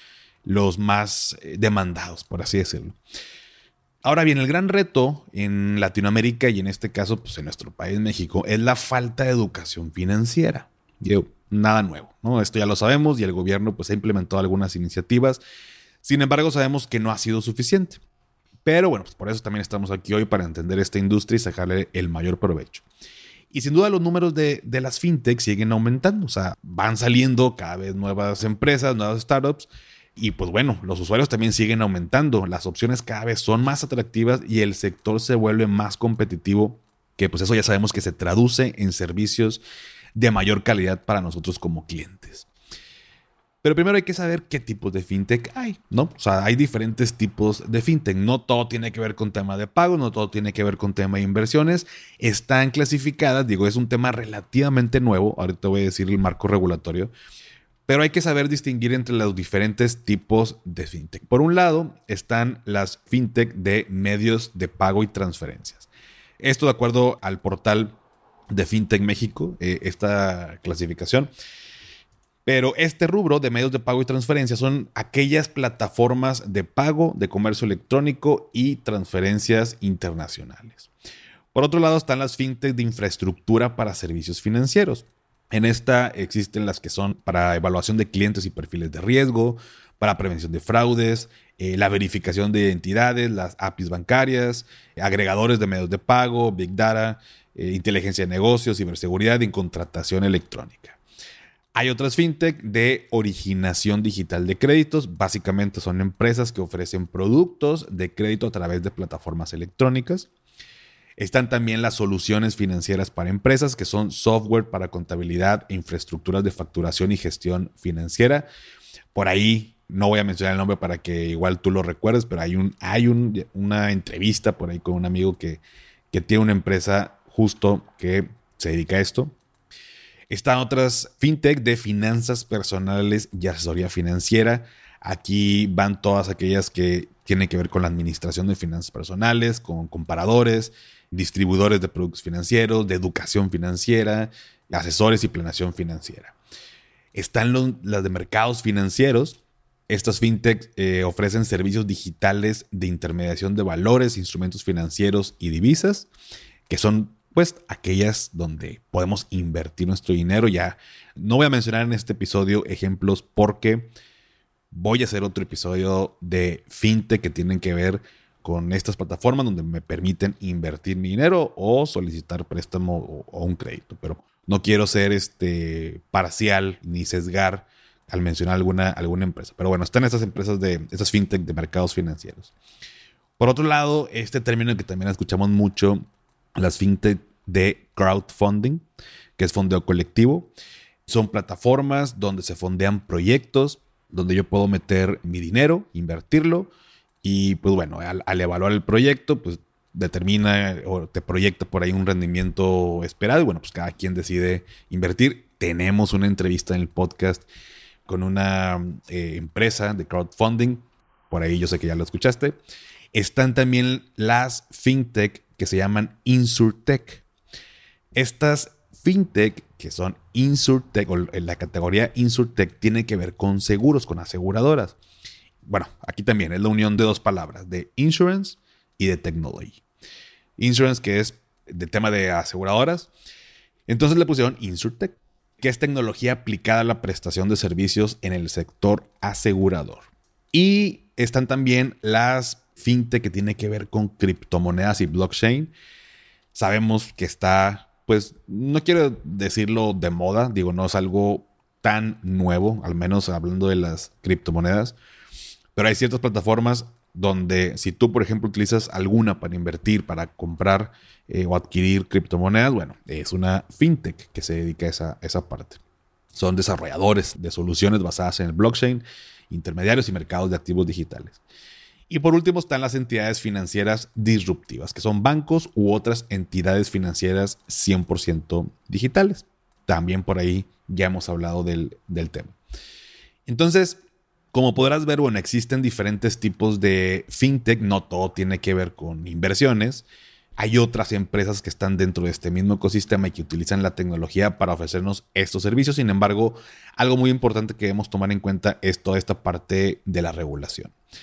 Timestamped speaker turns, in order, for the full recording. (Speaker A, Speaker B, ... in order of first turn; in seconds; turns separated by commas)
Speaker A: 0.4-3.0, Speaker A: 4.0-15.4, Speaker A: 16.0-18.0, Speaker A: 18.6-22.8, Speaker A: 23.5-39.6, Speaker A: 40.1-42.5, Speaker A: 43.6-57.1, Speaker A: 57.9-65.9, Speaker A: 66.4-68.0, Speaker A: 68.5-71.3, Speaker A: 72.5-80.9, Speaker A: 81.5-101.0, Speaker A: 101.7-110.3, Speaker A: 111.2-118.5, Speaker A: 119.1-129.3, Speaker A: 130.3-146.3, Speaker A: 147.1-156.1, Speaker A: 156.7-163.9, Speaker A: 164.7-182.5, Speaker A: 183.4-186.0, Speaker A: 186.6-188.8, Speaker A: 189.4-190.5, Speaker A: 191.1-196.7, Speaker A: 197.2-207.5, Speaker A: 208.1-212.6, Speaker A: 213.1-217.2, Speaker A: 218.1-225.0, Speaker A: 225.6-229.8, Speaker A: 230.6-233.1, Speaker A: 233.9-245.7, Speaker A: 246.5-254.9, Speaker A: 255.8-265.8, Speaker A: 266.3-271.4, Speaker A: 272.1-282.6, Speaker A: 283.4-284.0, Speaker A: 284.5-290.0, Speaker A: 290.6-300.9